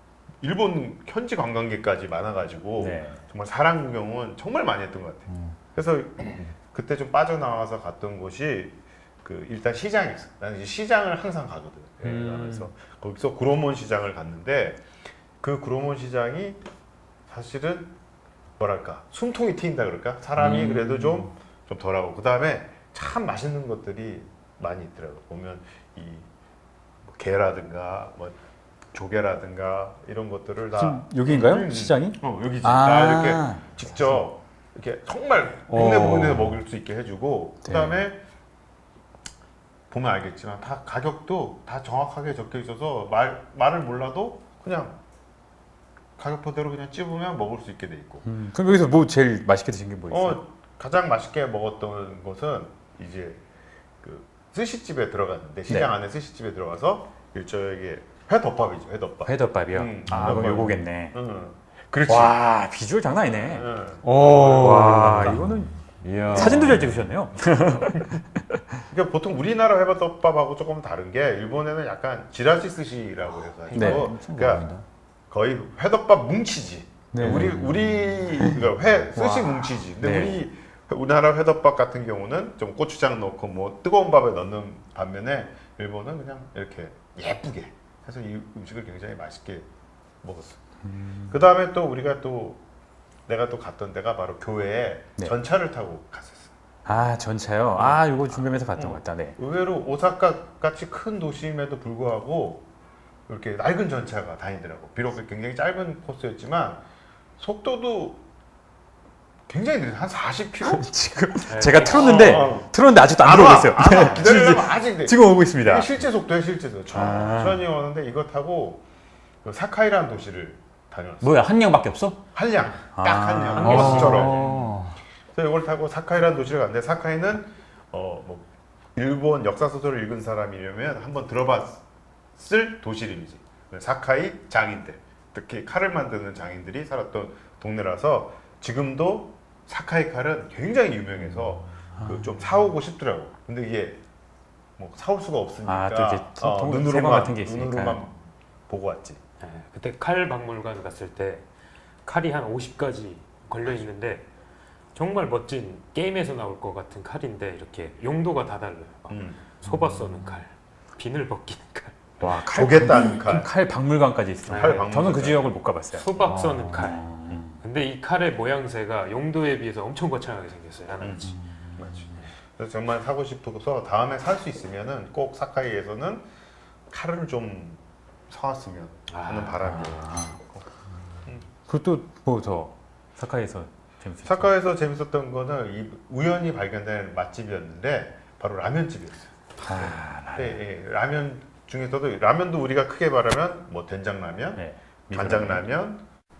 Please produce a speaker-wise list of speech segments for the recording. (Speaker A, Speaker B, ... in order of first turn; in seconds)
Speaker A: 0.4-14.8, 15.4-16.6, 17.3-17.9, 18.6-26.3, 27.1-28.4, 28.9-38.2, 39.9-45.0, 46.2-48.2, 50.1-53.4, 54.0-62.4, 63.4-65.0, 68.9-74.7, 75.3-89.7, 90.2-90.6, 91.3-92.6, 93.3-96.5, 97.8-102.7, 103.3-106.8, 107.4-108.2, 109.5-110.9, 111.7-118.8, 119.4-121.4, 122.3-124.5, 125.3-131.8, 132.3-144.0, 144.8-149.2, 159.1-159.4, 162.4-163.5, 164.5-165.5, 171.0-176.2, 176.9-180.6, 184.2-196.0
Speaker B: 2.8-3.2, 30.8-34.2, 37.6-38.0, 48.2-50.4, 59.2-61.1, 62.1-63.7, 64.5-65.7, 66.3-68.6, 73.7-74.1, 77.1-77.6, 79.1-80.4, 90.8-91.4, 96.8-99.3, 110.6-115.9, 116.9-117.6, 122.9-124.5, 141.9-142.4, 145.6-148.0, 162.2-166.2, 166.7-167.6, 179.6-180.4, 181.7-184.5, 189.6-190.6, 194.6-195.6
Speaker C: 12.0-12.7, 111.5-112.5, 149.4-151.4, 152.0-154.3, 154.9-162.0, 164.4-164.8, 165.9-171.4, 179.1-179.8
Speaker D: 20.4-21.3, 35.7-36.6, 64.0-67.1, 73.5-74.8, 77.2-78.2, 121.2-122.2, 123.5-125.0, 159.7-160.4, 166.2-166.9